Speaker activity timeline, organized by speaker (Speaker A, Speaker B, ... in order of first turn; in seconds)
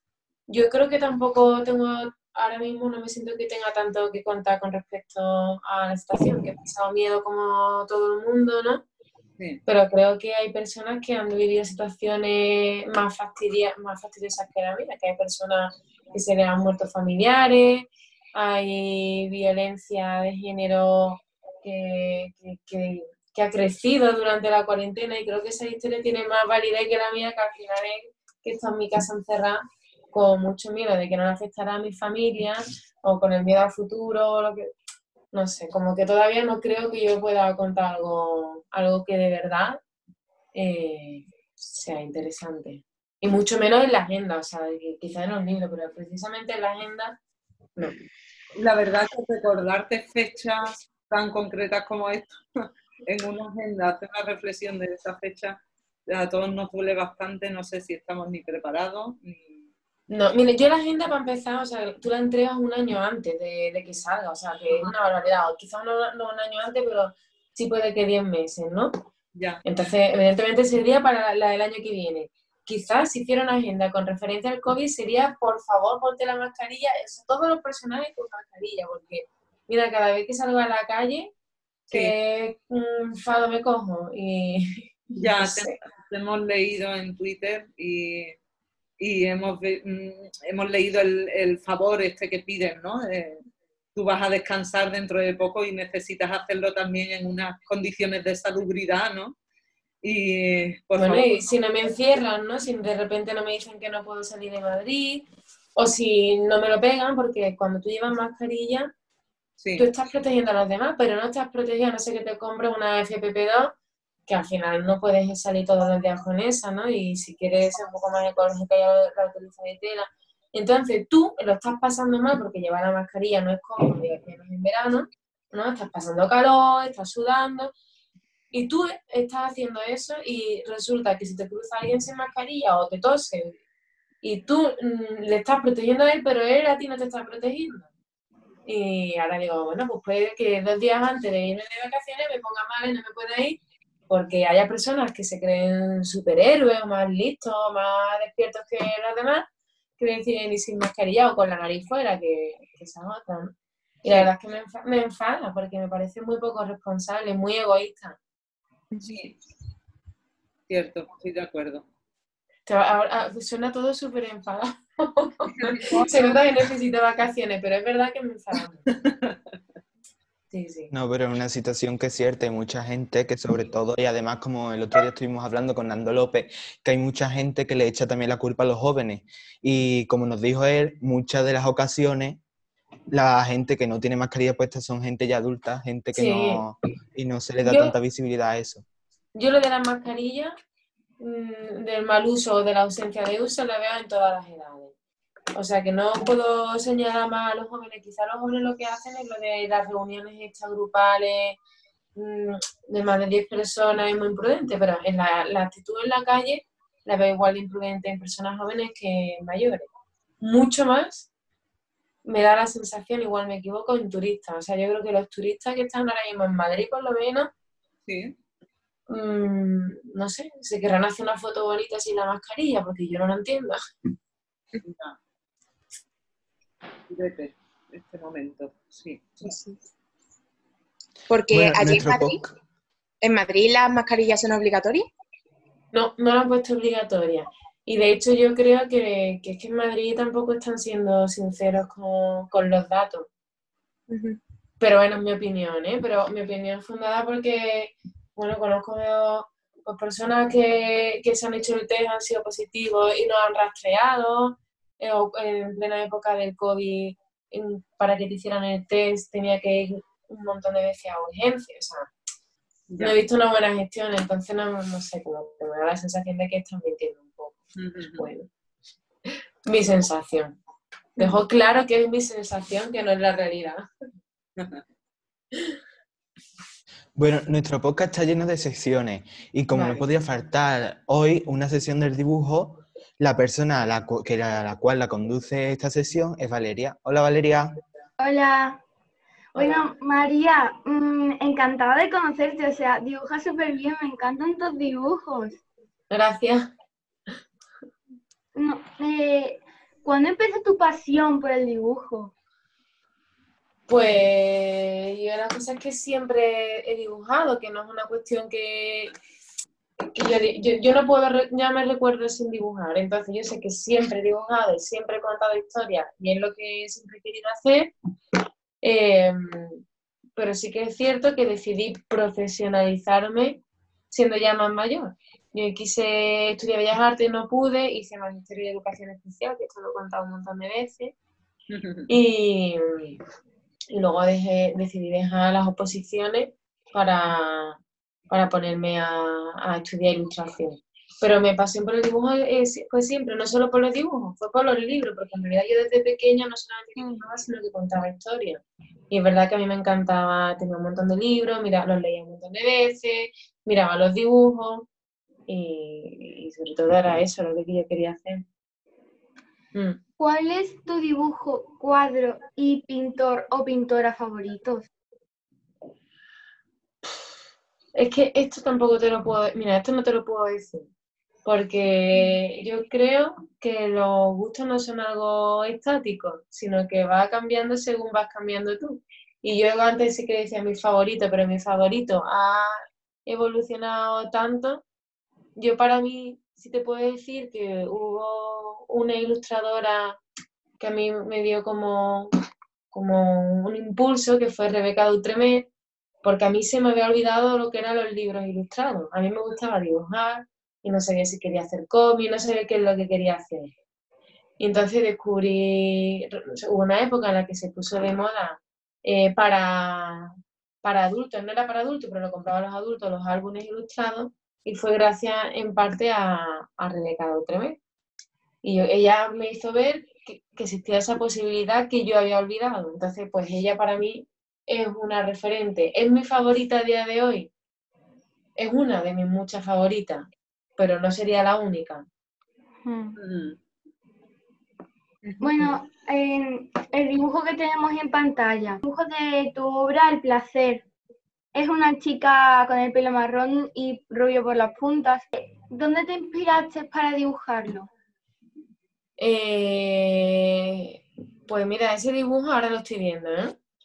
Speaker A: 0.5-8.8, 9.7-34.7, 35.3-39.8, 40.5-47.2, 60.1-68.9, 69.6-81.3, 81.9-85.7, 101.0-108.9, 109.8-113.7, 114.3-127.7, 128.5-133.6, 134.2-137.9, 138.7-149.4, 150.0-158.2, 162.7-168.8, 170.5-170.9, 186.1-186.6, 187.6-187.9, 189.3-190.5, 191.2-194.9, 195.6-201.6, 202.2-209.8, 210.4-211.3, 212.2-217.5, 219.1-223.8, 235.9-243.3, 244.8-262.1, 263.0-267.6, 268.1-268.5, 269.7-270.5, 271.2-273.9, 279.7-280.1, 289.6-289.9, 296.1-296.7, 303.9-309.1, 310.1-317.9, 318.8-319.8, 320.4-331.1, 332.1-333.2, 333.9-337.8, 338.3-354.9, 355.5-358.4, 359.7-360.0, 367.9-370.9, 371.4-384.8, 385.6-390.2, 390.8-392.3, 392.9-395.7, 396.2-403.7, 404.6-417.8, 418.6-427.5, 428.6-432.1, 435.2-435.8, 449.2-453.6
Speaker B: 48.6-59.6, 69.3-69.6, 85.2-88.4, 89.0-93.4, 93.9-99.3, 100.0-101.3, 109.6-109.9, 159.0-159.3, 160.7-161.8, 165.6-166.3, 169.1-169.3, 218.1-218.3, 224.8-225.2, 227.1-229.4, 262.9-263.2, 267.8-268.2, 331.7-332.1, 433.2-433.6
Speaker C: 170.9-182.4, 183.1-188.8, 231.5-232.5, 277.2-287.8
Speaker D: 229.4-229.8, 231.3-232.4, 233.2-235.1, 244.1-244.4
Speaker E: 288.2-288.8, 289.5-295.6, 298.6-302.3, 360.2-364.9, 432.8-433.2, 435.4-440.8, 441.5-447.9